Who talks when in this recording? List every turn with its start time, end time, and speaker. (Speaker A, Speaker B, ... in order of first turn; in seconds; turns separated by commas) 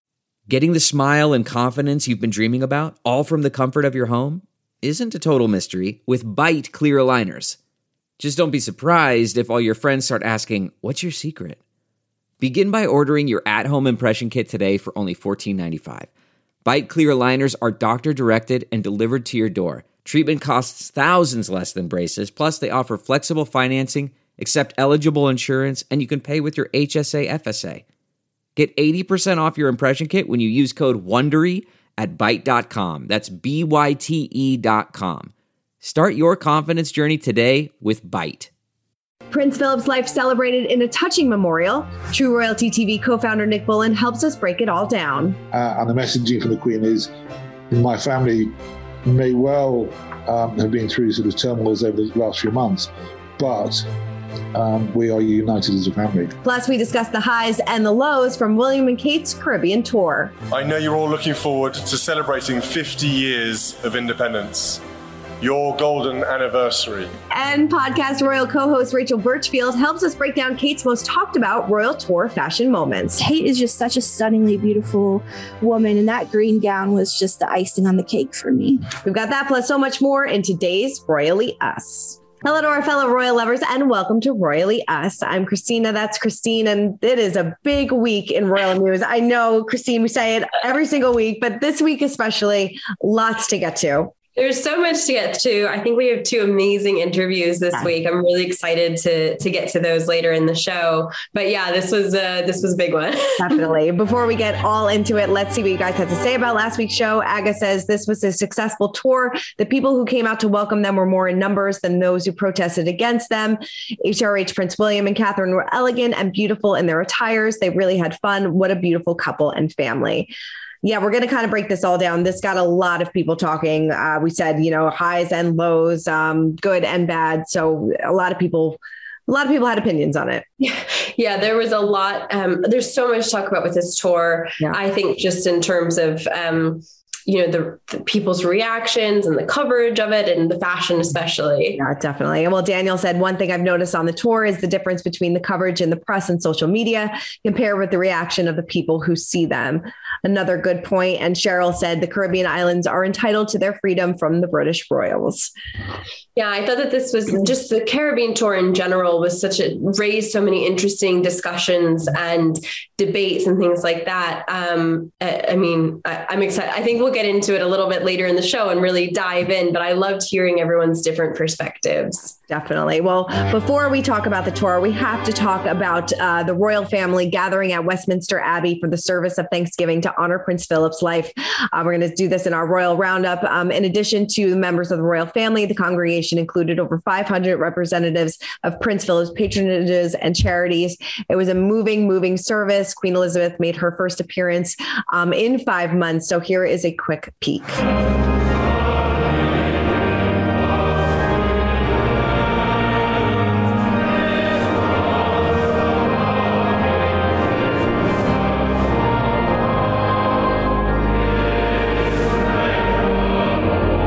Speaker A: 0.5-7.6, Speaker A: 8.2-11.6, Speaker A: 12.4-16.1, Speaker A: 16.6-27.8, Speaker A: 28.6-38.5, Speaker B: 39.3-45.4, Speaker C: 45.5-47.1, Speaker C: 47.7-48.5, Speaker C: 49.0-53.9, Speaker C: 54.5-56.3, Speaker B: 56.4-60.3, Speaker D: 60.5-64.8, Speaker D: 65.4-67.1, Speaker B: 67.3-73.2, Speaker E: 73.2-78.8, Speaker B: 79.0-94.1, Speaker F: 94.3-103.6, Speaker B: 103.4-120.3, Speaker B: 120.8-130.4, Speaker F: 130.6-141.8, Speaker B: 141.8-155.5, Speaker F: 156.3-172.3, Speaker B: 172.5-197.8